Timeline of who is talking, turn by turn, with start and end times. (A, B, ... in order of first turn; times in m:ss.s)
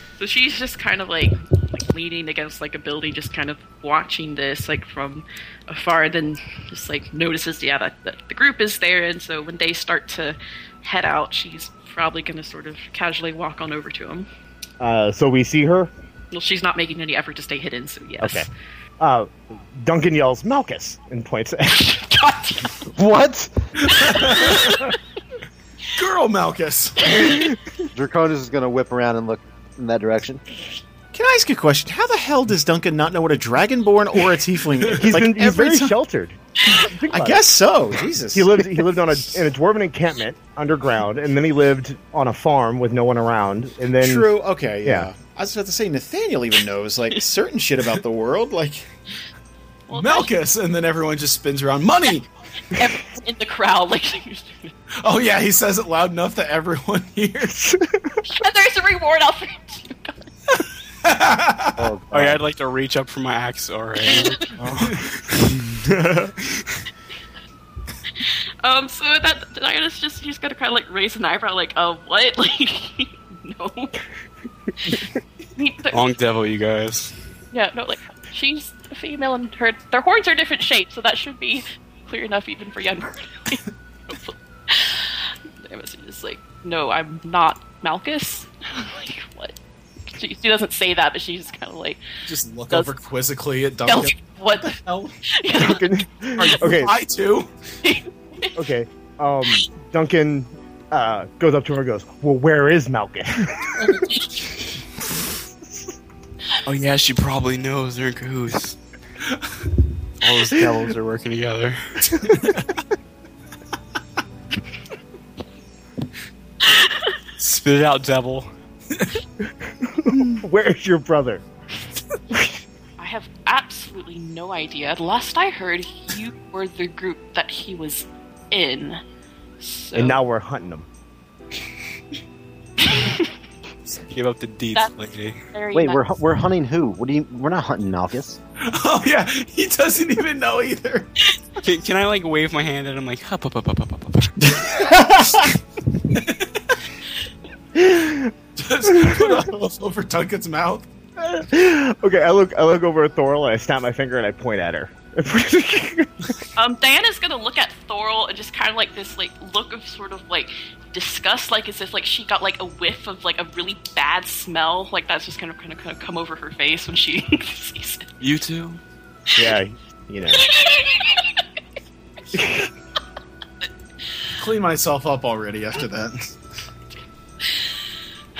0:00.2-0:14.3 A
0:14.8-0:15.9 B
0:16.3-0:18.5 A
0:18.2-0:18.5 B
0:19.0-0:21.8 B
0:21.7-0:22.8 A
0:22.9-0:23.7 C
0:23.9-0:24.9 D
0:23.9-0:25.0 A
0:25.9-0:27.5 D
0:27.1-0:27.5 A
0:27.9-0:30.4 C
0:31.1-0:36.0 E
0:35.0-0:37.4 B
0:37.1-0:38.7 E
0:38.3-0:44.3 B
0:44.0-0:48.9 E
0:44.8-0:45.1 B
0:49.9-0:50.3 A
0:49.9-0:52.3 D
0:52.7-0:54.7 A
0:55.0-0:57.6 D
0:57.5-0:58.1 B
0:58.2-1:00.2 A
1:00.6-1:01.8 D
1:01.8-1:02.4 C
1:02.1-1:04.5 F
1:04.1-1:04.4 A
1:05.5-1:06.7 E
1:08.2-1:14.0 A
1:15.5-1:16.0 A
1:15.9-1:17.1 F
1:17.5-1:29.5 A
1:30.1-1:32.0 A
1:32.2-1:35.1 D
1:33.8-1:35.8 A
1:35.5-1:36.9 B
1:36.4-1:37.5 D
1:37.8-1:38.6 A
1:38.6-1:43.8 B
1:43.8-1:44.3 A
1:46.6-1:48.8 F
1:50.2-1:52.3 F
1:52.3-1:52.6 D
1:56.7-1:57.1 A
1:57.4-1:58.5 F
1:59.8-2:01.4 B
2:02.3-2:02.6 B
2:03.0-2:09.0 A
2:09.6-2:10.2 A
2:09.9-2:10.8 B
2:12.8-2:13.3 A
2:14.0-2:15.4 F
2:15.5-2:16.0 A
2:15.7-2:18.4 C
2:18.6-2:21.1 D
2:21.6-2:24.6 F
2:24.4-2:25.5 E
2:26.1-2:26.7 D
2:27.7-2:28.3 B
2:28.6-2:30.8 D
2:28.9-2:29.4 B
2:31.2-2:36.3 B
2:36.6-2:48.1 A
2:48.2-2:48.8 F
2:49.4-2:50.4 B
2:50.3-2:51.4 A
2:52.3-2:52.7 B
2:54.4-2:56.3 D